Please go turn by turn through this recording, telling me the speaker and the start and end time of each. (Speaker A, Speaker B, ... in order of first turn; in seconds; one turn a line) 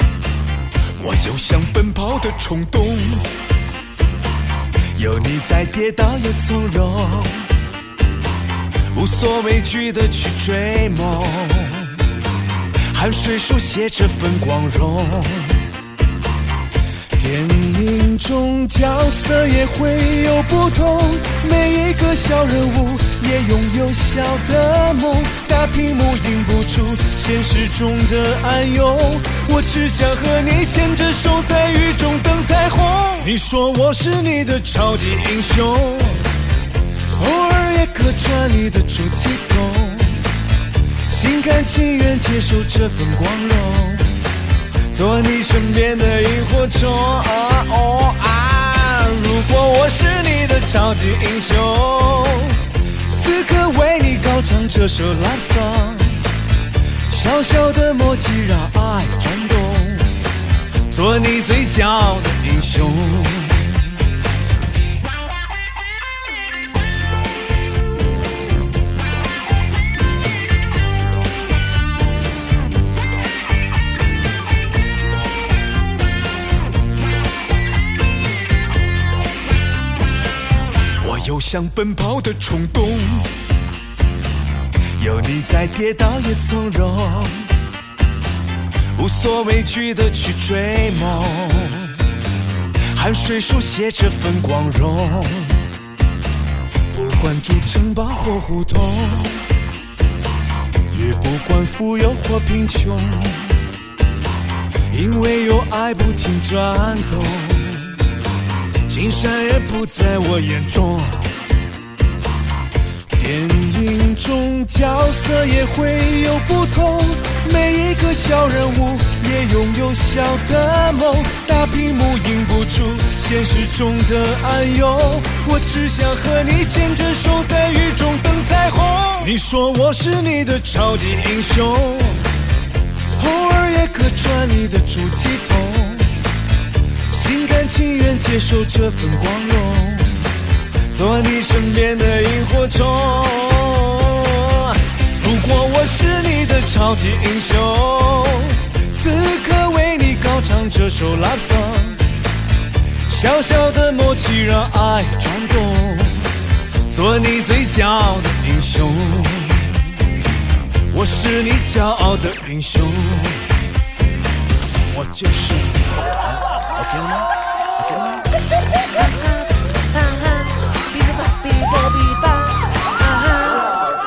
Speaker A: 1.0-3.3
Speaker A: 4.9-7.5
Speaker A: 8.9-12.0
Speaker A: 12.9-15.6
Speaker A: 17.2-36.2
Speaker A: 37.1-40.2
Speaker A: 41.1-44.2
Speaker A: 44.9-52.6
Speaker A: 53.1-56.2
Speaker A: 57.1-60.2
Speaker A: 60.9-63.8
Speaker A: 81.0-83.3
Speaker A: 85.0-87.5
Speaker A: 89.0-91.9
Speaker A: 92.9-95.6
Speaker A: 96.9-99.4
Speaker A: 100.9-103.6
Speaker A: 104.9-107.9
Speaker A: 108.9-111.3
Speaker A: 113.1-132.2
Speaker A: 133.2-136.1
Speaker A: 137.1-140.3
Speaker A: 140.9-152.0
Speaker A: 153.1-156.3
Speaker A: 156.9-159.9
Speaker A: 160.9-163.5
Speaker A: 164.9-168.2
Speaker A: 169.0-173.7